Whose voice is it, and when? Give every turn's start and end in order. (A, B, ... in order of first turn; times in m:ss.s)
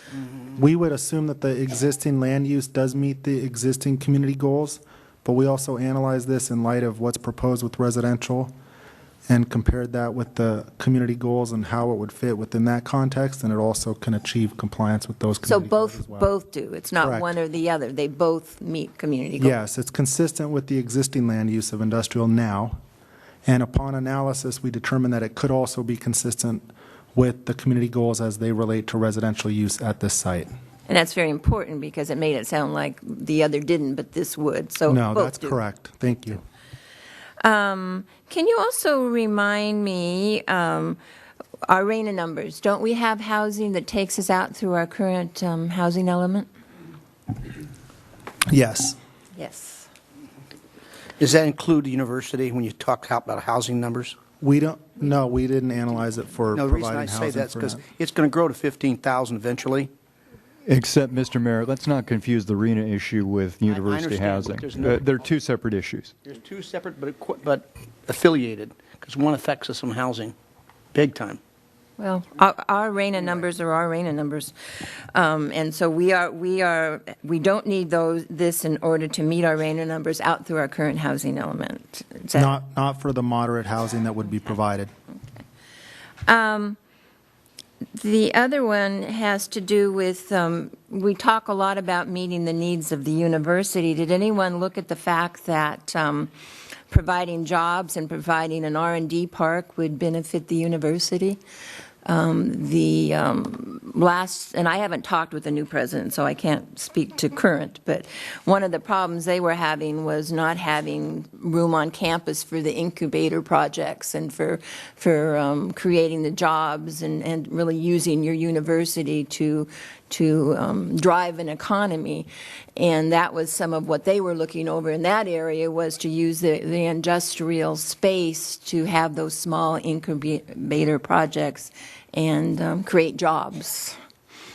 0:00.6-0:08.5 A
0:09.3-0:16.3 A
0:15.4-0:19.6 B
0:17.0-0:17.3 A
0:19.4-0:22.8 A
0:23.4-0:30.5 A
0:30.9-0:35.6 B
0:34.9-0:36.4 A
0:37.4-0:41.0 B
0:41.6-0:46.5 B
0:48.5-0:49.0 A
0:49.3-0:49.9 B
0:51.2-0:54.2 C
0:54.4-0:57.8 A
0:56.5-0:59.9 C
1:00.6-1:06.1 D
1:03.7-1:05.3 C
1:06.2-1:10.3 C
1:10.9-1:11.4 C
1:12.0-1:14.5 B
1:15.1-1:22.5 B
1:22.3-1:24.9 A
1:26.3-1:26.8 B
1:28.0-1:36.3 B
1:36.9-1:41.4 B
1:42.0-2:14.0 B